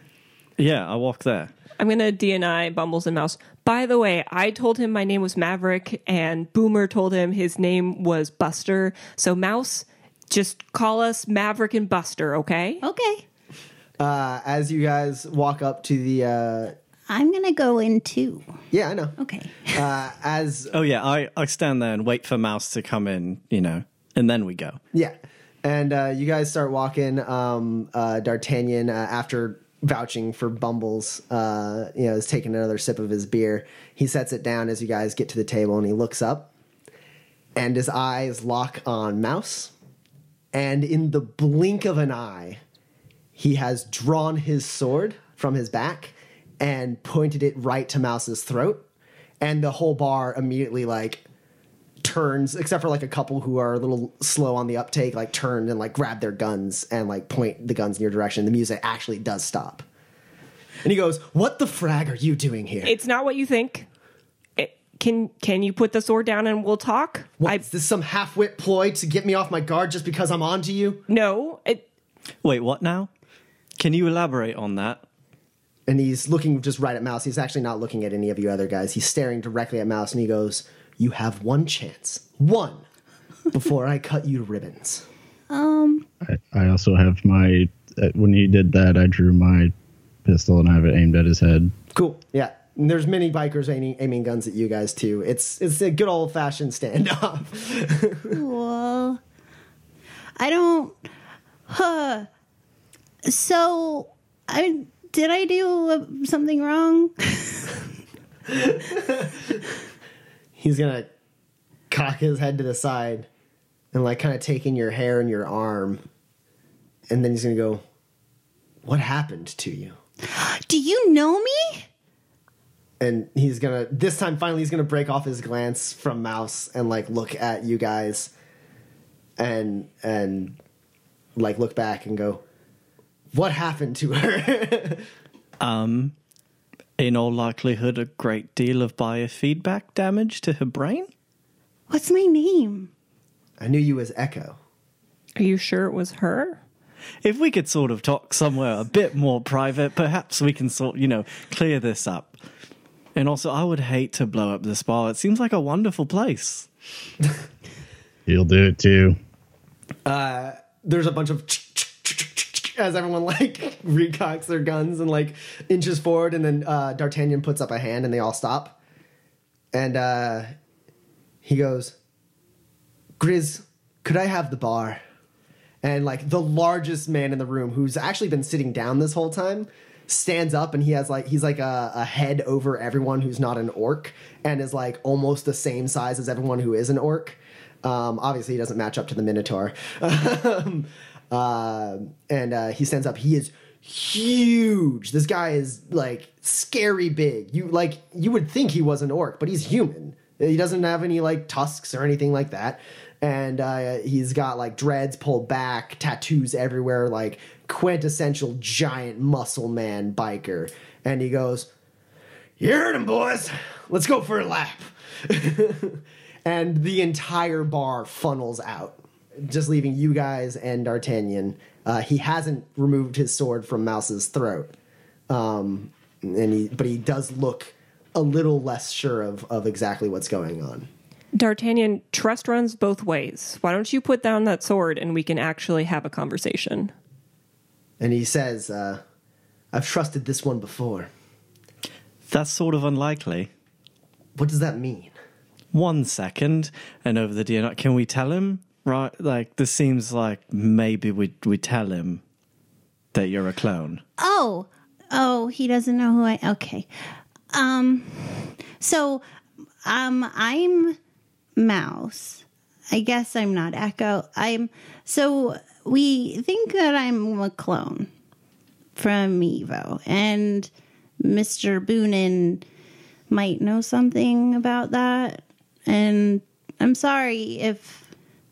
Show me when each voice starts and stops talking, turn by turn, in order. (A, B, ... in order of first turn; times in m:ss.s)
0:00.6-0:01.5 A
0:01.8-0:12.8 B
0:12.8-0:13.2 C
0:14.0-0:16.8 D
0:17.1-0:18.4 C
0:18.7-0:19.2 D
0:19.2-0:19.8 C
0:19.7-0:20.7 D
0:20.7-0:24.8 A
0:24.9-0:36.5 D
0:37.5-0:39.7 D
0:40.5-0:42.6 D
0:43.4-0:48.8 D
0:49.4-0:51.2 D
0:52.0-0:59.8 D
1:00.8-1:02.9 D
1:02.8-1:03.9 B
1:04.6-1:07.6 B
1:07.4-1:11.0 D
1:11.1-1:11.8 B
1:12.4-1:13.1 A
1:13.8-1:15.0 A
1:15.9-1:22.8 D
1:23.5-1:25.0 D
1:25.5-1:26.0 C
1:26.2-1:29.7 E
1:30.2-1:31.7 E
1:31.9-1:38.4 D
1:38.3-1:39.2 C
1:40.4-1:41.0 C
1:41.7-1:42.3 C
1:43.2-1:47.7 C
1:48.9-1:49.3 D
1:50.6-1:51.1 D
1:51.9-1:53.3 D
1:53.9-1:56.0 D
1:57.1-1:57.8 D
1:58.8-1:59.9 D
2:00.2-2:01.8 C
2:03.0-2:08.3 D
2:09.4-2:10.6 D
2:11.4-2:12.4 D
2:13.3-2:15.0 D
2:15.6-2:16.1 A
2:17.0-2:21.1 A
2:21.9-2:22.9 C
2:23.6-2:24.6 D
2:25.4-2:26.6 B
2:27.2-2:32.4 A
2:33.1-2:36.7 A
2:38.2-2:39.2 E
2:40.0-2:48.8 D
2:49.7-2:50.5 D
2:51.4-2:52.0 D
2:53.2-2:55.0 D
2:55.8-3:31.7 D
3:32.6-3:44.7 D
3:45.3-3:50.9 D
3:51.3-3:56.9 B
3:58.0-3:59.0 D
3:59.7-4:01.1 D
4:02.3-4:03.5 A
4:04.4-4:05.1 D
4:05.7-4:12.2 A
4:13.1-4:14.0 A
4:14.2-4:16.9 C
4:17.5-4:19.2 C
4:19.8-4:21.0 C
4:21.6-4:28.1 C
4:29.0-4:32.6 C
4:33.3-4:38.1 C